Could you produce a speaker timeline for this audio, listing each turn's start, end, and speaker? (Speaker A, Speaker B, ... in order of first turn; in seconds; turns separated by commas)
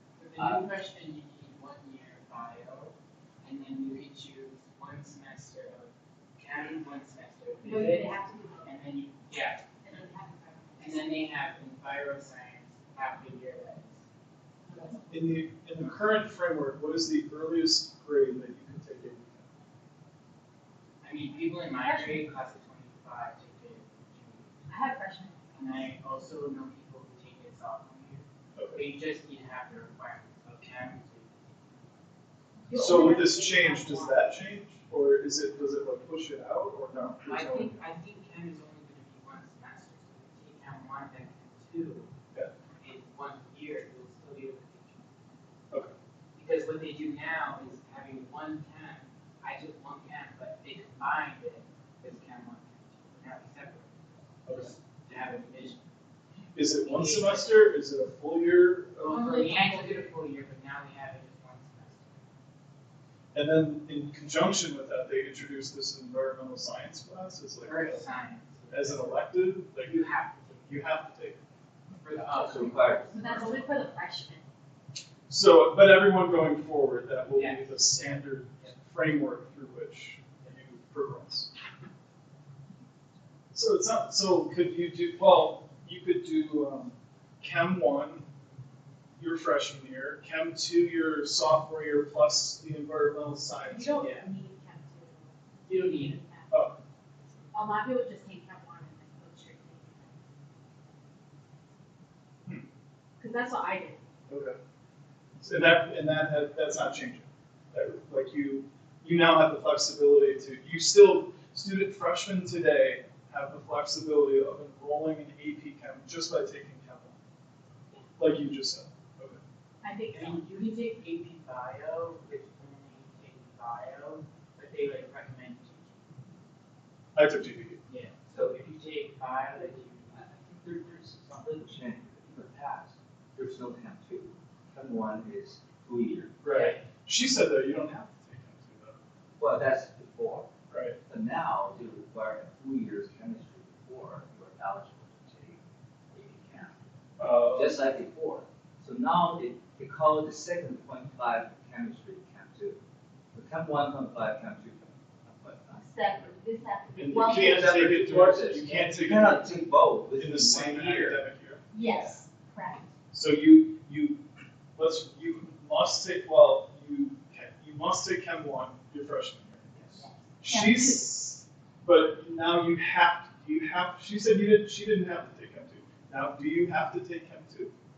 Speaker A: 0.2-9.9, Speaker B: 0.4-0.7, Speaker C: 7.6-8.7, Speaker C: 9.8-11.1, Speaker A: 10.8-14.0, Speaker C: 14.7-15.0, Speaker D: 15.1-19.5, Speaker A: 21.0-25.0, Speaker C: 21.7-22.3, Speaker C: 24.7-25.8, Speaker A: 25.5-32.0, Speaker D: 28.6-28.8, Speaker A: 32.7-33.1, Speaker C: 32.7-34.4, Speaker D: 32.7-37.8, Speaker A: 37.2-42.1, Speaker A: 42.8-45.4, Speaker A: 46.4-55.9, Speaker D: 54.5-54.8, Speaker D: 56.5-59.4, Speaker A: 56.6-57.7, Speaker C: 59.0-60.1, Speaker A: 59.0-62.3, Speaker D: 63.3-68.0, Speaker A: 67.6-70.8, Speaker D: 68.7-70.0, Speaker D: 70.6-71.4, Speaker A: 72.0-73.8, Speaker B: 72.1-73.5, Speaker C: 73.2-74.4, Speaker D: 75.3-81.5, Speaker A: 77.3-77.9, Speaker D: 83.5-88.3, Speaker D: 89.2-94.1, Speaker C: 93.7-96.6, Speaker A: 93.9-94.3, Speaker A: 95.7-96.2, Speaker D: 96.5-96.8, Speaker C: 97.5-100.2, Speaker C: 103.2-104.0, Speaker D: 104.3-104.6, Speaker D: 105.4-117.2, Speaker D: 118.2-119.4, Speaker C: 119.8-120.8, Speaker A: 120.1-126.2, Speaker D: 127.2-127.8, Speaker A: 127.9-130.2, Speaker B: 128.3-128.6, Speaker B: 129.6-136.4, Speaker D: 136.4-139.0, Speaker A: 136.5-136.8, Speaker B: 139.4-140.5, Speaker D: 140.7-141.0, Speaker B: 141.1-146.8, Speaker D: 147.2-147.8, Speaker B: 147.4-152.8, Speaker B: 153.3-156.1, Speaker C: 155.7-157.8, Speaker D: 156.9-161.8, Speaker B: 157.1-161.2, Speaker C: 161.7-162.9, Speaker B: 161.9-162.1, Speaker D: 163.1-164.2, Speaker D: 164.8-169.7, Speaker B: 169.7-170.1, Speaker C: 170.0-171.0, Speaker D: 170.4-177.7